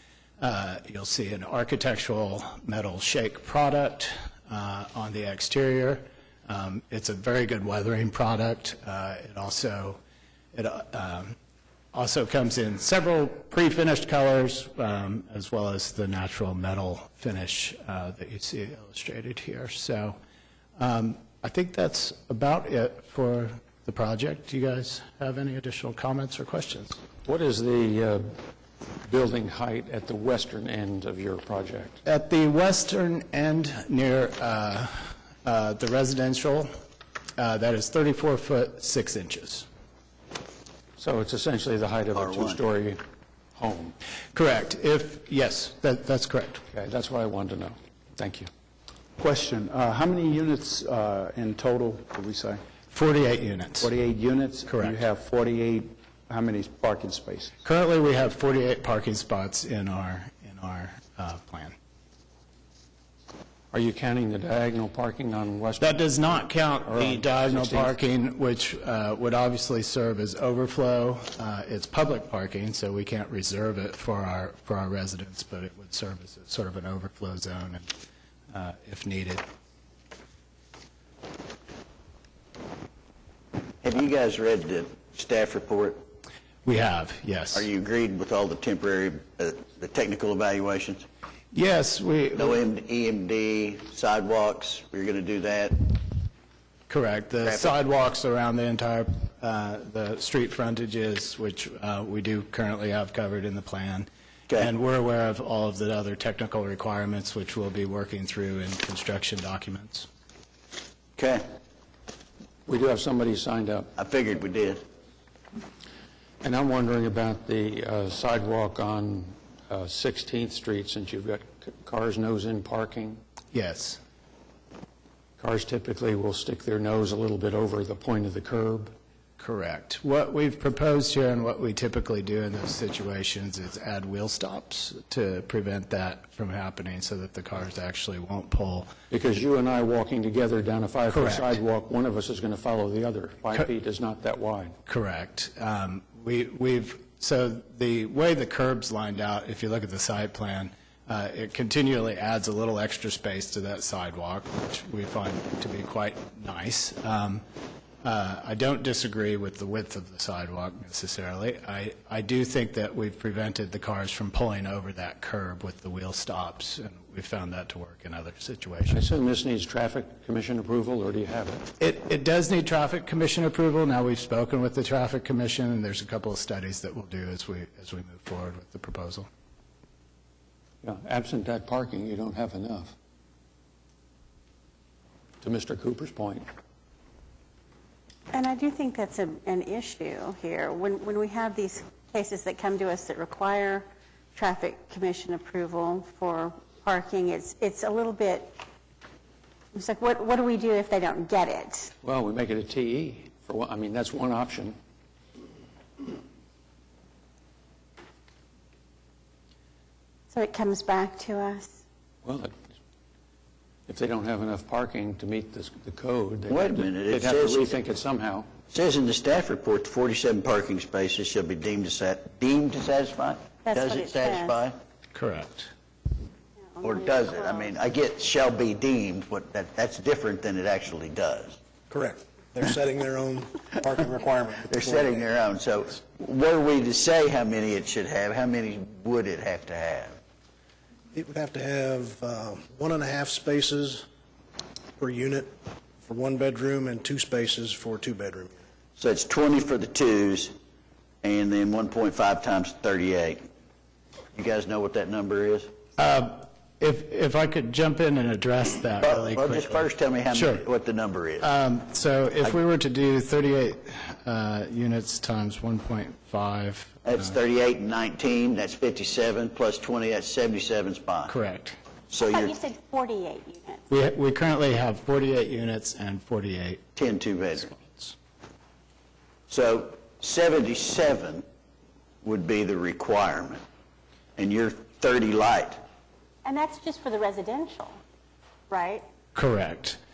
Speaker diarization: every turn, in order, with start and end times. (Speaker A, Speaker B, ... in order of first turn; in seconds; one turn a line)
Speaker A: 0.4-10.0
Speaker A: 10.5-11.3
Speaker A: 11.9-20.2
Speaker A: 20.8-27.0
Speaker B: 27.2-28.3
Speaker B: 29.0-32.0
Speaker A: 32.0-36.7
Speaker A: 37.4-39.6
Speaker B: 41.0-43.0
Speaker C: 42.1-42.6
Speaker B: 43.5-43.9
Speaker A: 44.3-46.6
Speaker B: 46.7-48.5
Speaker D: 49.2-52.6
Speaker A: 52.9-53.9
Speaker D: 53.8-57.5
Speaker A: 54.7-55.0
Speaker A: 57.6-61.7
Speaker B: 63.7-67.9
Speaker A: 65.8-77.9
Speaker A: 78.5-79.4
Speaker C: 83.8-86.0
Speaker A: 86.6-87.7
Speaker C: 87.5-91.0
Speaker A: 91.5-92.6
Speaker C: 92.3-95.9
Speaker A: 96.9-110.1
Speaker C: 97.5-97.7
Speaker C: 111.2-111.4
Speaker B: 112.7-113.9
Speaker C: 114.0-114.8
Speaker B: 116.4-123.2
Speaker A: 123.5-124.0
Speaker B: 125.4-128.9
Speaker A: 129.4-138.9
Speaker B: 139.1-144.7
Speaker A: 141.1-141.6
Speaker A: 144.8-157.4
Speaker A: 158.0-169.0
Speaker B: 168.9-171.7
Speaker A: 171.8-179.3
Speaker B: 180.8-182.9
Speaker B: 185.4-186.4
Speaker E: 188.3-198.6
Speaker E: 199.7-201.9
Speaker B: 202.0-204.8
Speaker E: 210.3-211.8
Speaker B: 212.2-212.6
Speaker B: 213.9-218.5
Speaker C: 216.5-217.8
Speaker C: 218.7-224.8
Speaker E: 223.6-224.6
Speaker A: 225.1-225.7
Speaker E: 226.7-227.7
Speaker C: 226.8-231.6
Speaker F: 231.9-235.2
Speaker C: 234.7-240.2
Speaker F: 241.1-244.0
Speaker F: 245.0-245.5
Speaker F: 246.0-248.6
Speaker C: 249.0-250.5
Speaker C: 251.2-253.4
Speaker C: 254.3-255.7
Speaker A: 256.0-260.6
Speaker C: 259.0-261.5
Speaker A: 261.4-267.3
Speaker C: 267.0-271.3
Speaker A: 271.3-271.8
Speaker C: 272.1-272.6
Speaker E: 272.3-273.9
Speaker A: 273.9-276.9
Speaker C: 276.9-277.7
Speaker A: 277.6-278.1
Speaker C: 279.5-281.4
Speaker C: 282.2-283.6
Speaker C: 284.4-285.8
Speaker E: 286.4-288.0
Speaker E: 288.7-289.0
Speaker A: 289.3-290.0